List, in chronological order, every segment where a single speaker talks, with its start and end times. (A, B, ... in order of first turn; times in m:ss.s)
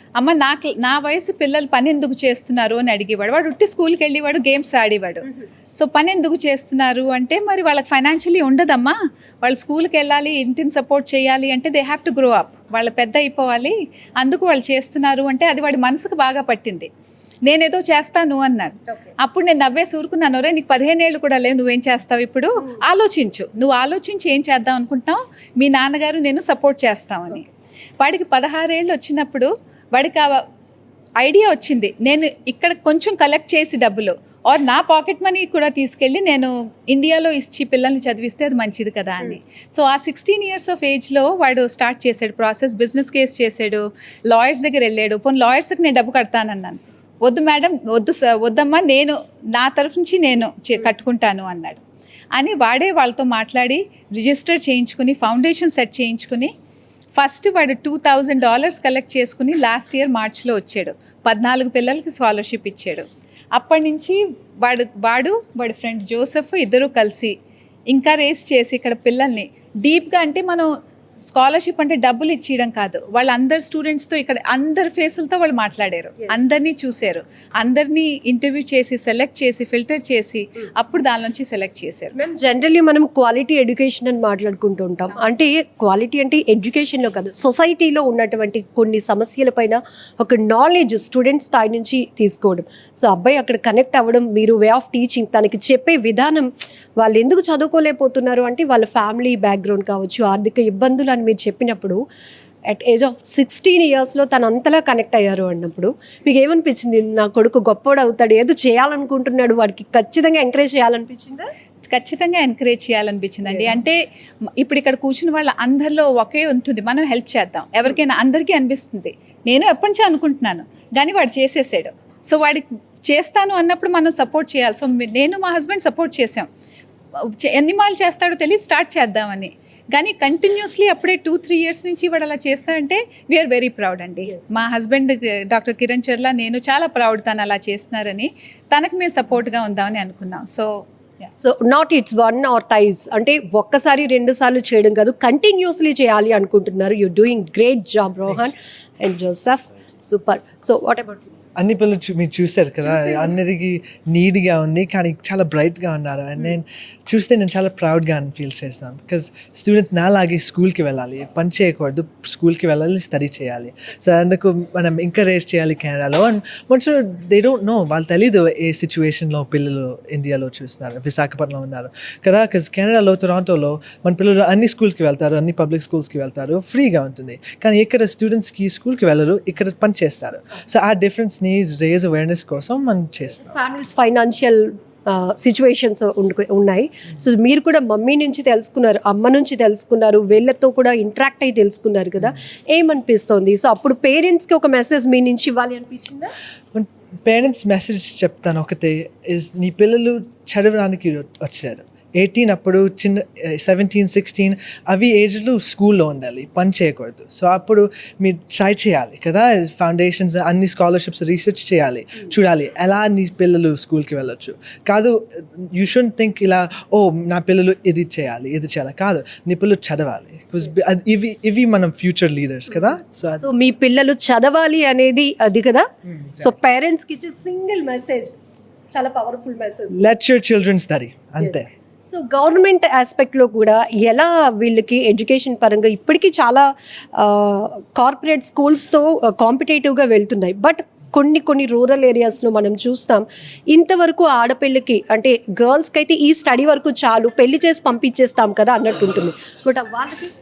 0:00.2-0:16.9 A
0:17.5-0:27.5 A
0:28.0-0:30.4 A
0:31.2-0:51.8 A
0:52.3-0:56.5 A
0:57.2-1:07.3 A
1:07.9-1:10.7 A
1:11.3-1:22.1 A
1:22.2-1:42.0 B
1:42.7-1:51.5 B
1:51.9-1:54.0 A
1:53.4-1:53.8 B
1:54.6-2:06.5 A
2:07.2-2:21.3 A
2:21.4-2:31.3 B
2:31.6-3:03.6 C
2:32.8-2:33.3 B
3:03.5-3:16.3 B
3:16.7-3:43.4 C
3:43.4-3:45.9 B
3:46.3-3:46.6 C
3:46.4-3:48.3 B
3:48.9-3:50.0 B
3:49.9-3:51.7 C
3:51.4-4:10.3 B